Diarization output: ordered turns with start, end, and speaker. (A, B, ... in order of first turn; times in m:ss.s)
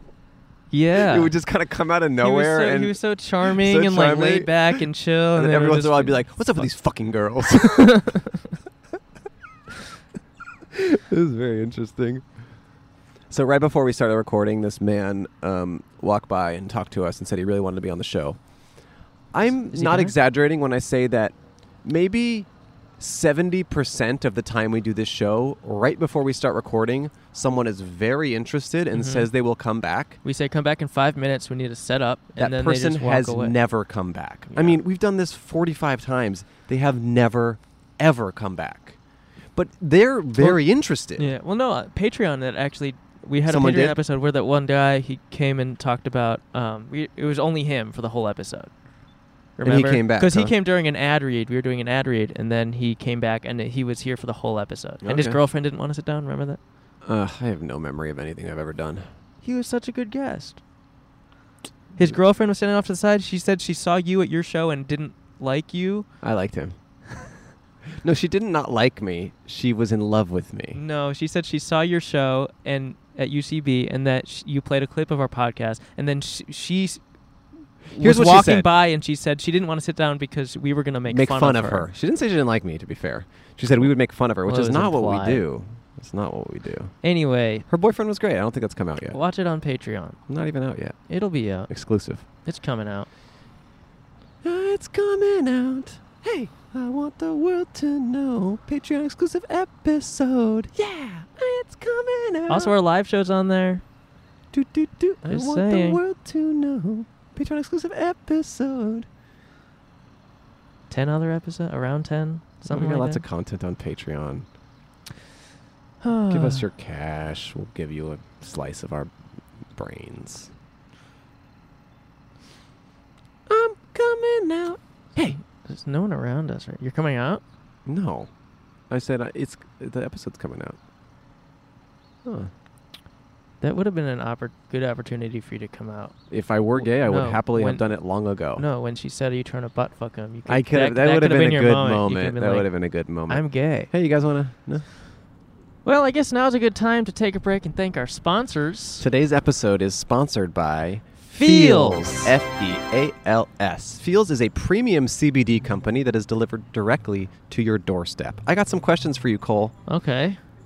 0:00.7-0:01.3 A
0:01.0-0:08.1 B
0:02.2-0:06.7 A
0:10.7-0:12.4 B
0:13.3-0:18.5 B
0:19.3-0:30.2 B
0:19.7-0:20.2 A
0:28.9-0:29.3 A
0:30.2-0:33.6 A
0:32.4-0:39.0 B
0:34.5-0:34.8 A
0:39.5-0:41.3 B
0:40.4-0:48.9 A
0:43.4-0:44.0 B
0:49.6-0:56.6 A
0:49.6-0:50.6 B
0:55.0-0:55.4 B
0:57.0-0:59.1 B
0:59.4-1:00.6 A
1:02.0-1:06.1 A
1:06.2-1:06.8 B
1:08.0-1:10.8 B
1:10.7-1:17.1 A
1:17.9-1:18.7 B
1:17.9-1:21.9 A
1:21.1-1:27.1 B
1:23.8-1:25.4 A
1:27.0-1:27.7 A
1:27.7-1:29.2 B
1:29.1-1:30.2 A
1:30.3-1:32.2 B
1:31.1-1:33.1 A
1:34.4-1:42.7 B
1:42.5-1:43.8 A
1:44.5-1:49.1 B
1:45.3-1:46.0 A
1:50.9-1:53.2 A
1:52.6-1:54.5 B
1:56.0-1:56.7 A
1:56.3-1:59.1 B
1:59.7-2:00.5 B
2:03.5-2:05.4 B
2:05.5-2:07.4 A
2:07.9-2:08.3 B
2:08.9-2:10.8 B
2:12.2-2:12.5 B
2:13.6-2:16.2 A
2:16.3-2:18.6 B
2:16.8-2:23.9 A
2:20.5-2:24.9 B
2:25.8-2:29.0 A
2:29.0-2:39.8 B
2:31.3-2:32.3 A
2:39.9-2:40.4 A